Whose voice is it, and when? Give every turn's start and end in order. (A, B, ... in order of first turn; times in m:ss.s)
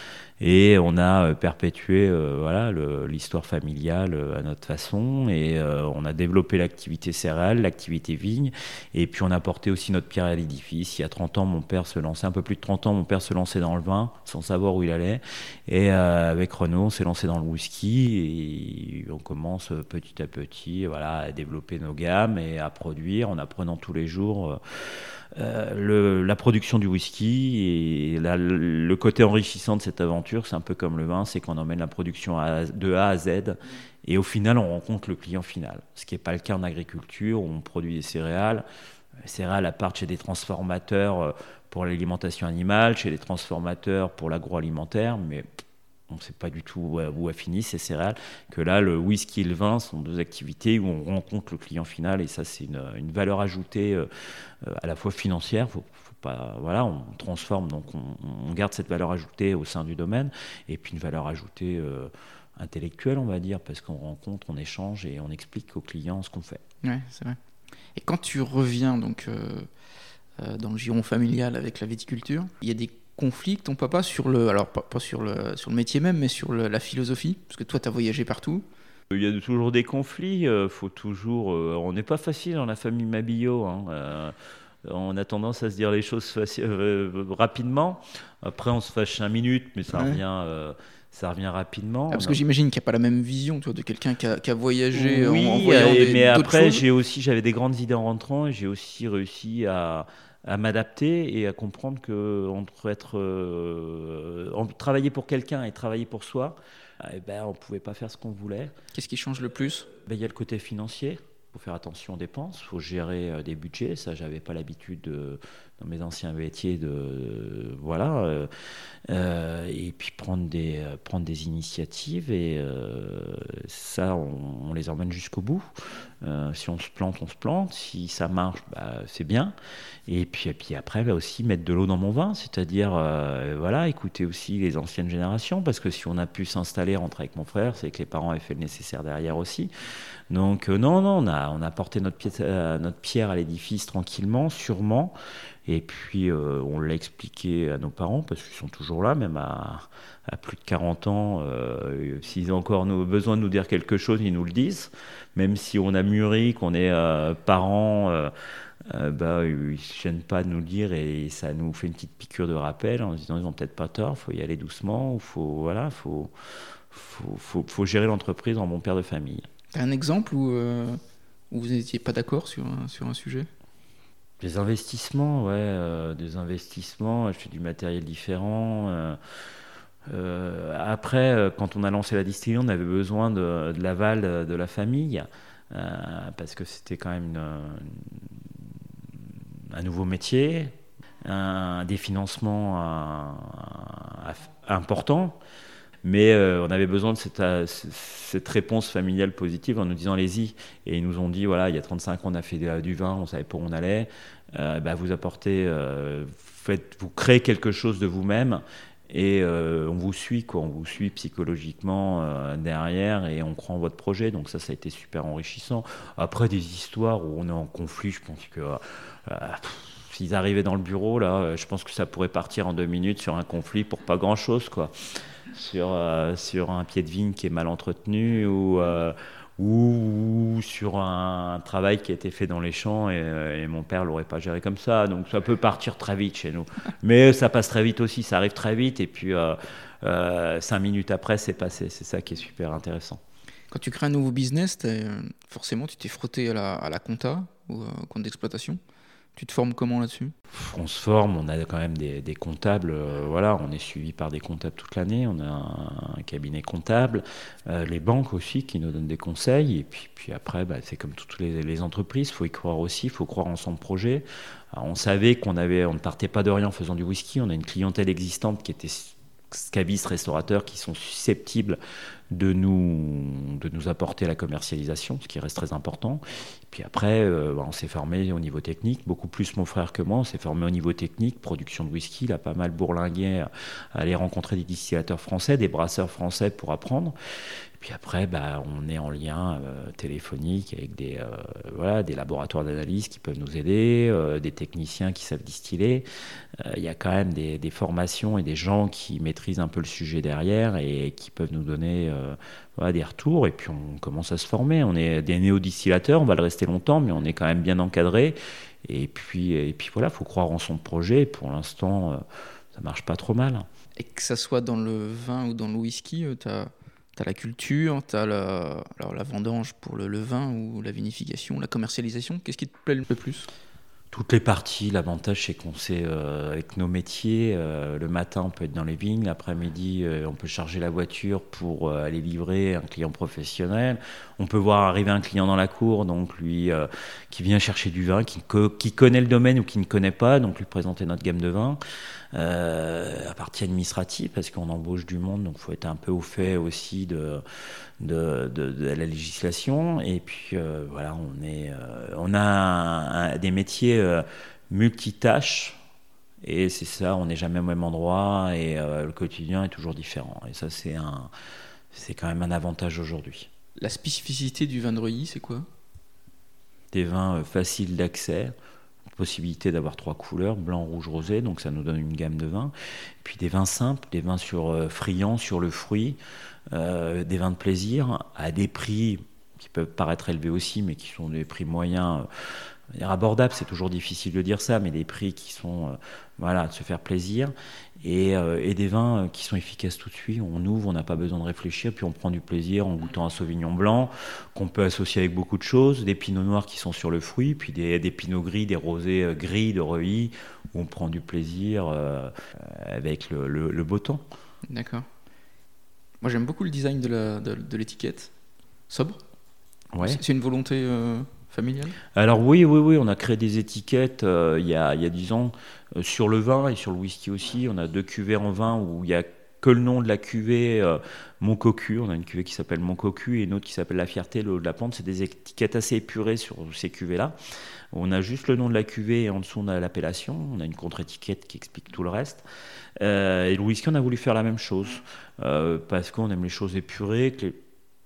0:00.4-0:38.6 A
0:39.2-0:45.4 A
0:46.1-0:54.1 A
0:54.6-1:06.6 A
1:06.8-1:07.4 B
1:08.0-1:09.7 B
1:10.4-1:18.6 B
1:19.1-1:32.4 A
1:29.9-1:30.2 B
1:32.1-1:36.8 B
1:34.9-1:48.7 A
1:48.9-1:49.9 B
1:50.0-1:58.5 A
1:59.1-2:09.5 A
2:10.1-2:19.7 A
2:20.3-2:25.1 A
2:25.6-2:38.3 A
2:38.9-2:49.5 A
2:49.7-2:51.0 B
2:51.5-2:53.5 B
2:54.4-2:59.2 A
3:00.1-3:08.5 A
3:09.7-3:15.4 A
3:16.0-3:44.9 A
3:45.5-4:03.2 A
4:03.7-4:08.8 B
4:09.4-4:10.3 B
4:10.5-4:31.8 A
4:32.3-4:56.0 A
4:56.6-5:12.2 A
5:12.7-5:13.6 A
5:14.0-5:23.5 B
5:24.1-5:41.8 A
5:42.3-5:47.4 A
5:48.0-5:55.8 A
5:56.4-6:01.3 A
6:01.9-6:03.5 A
6:03.8-6:05.7 B
6:06.9-6:08.5 A
6:09.1-6:16.2 A
6:16.7-6:22.3 A
6:22.9-6:44.2 A
6:44.7-6:45.1 B
6:46.2-6:48.3 B
6:48.9-6:49.2 B
6:49.9-6:50.2 A
6:50.0-6:52.0 B
6:52.1-7:07.4 A
7:07.9-7:12.4 A
7:13.0-7:17.6 A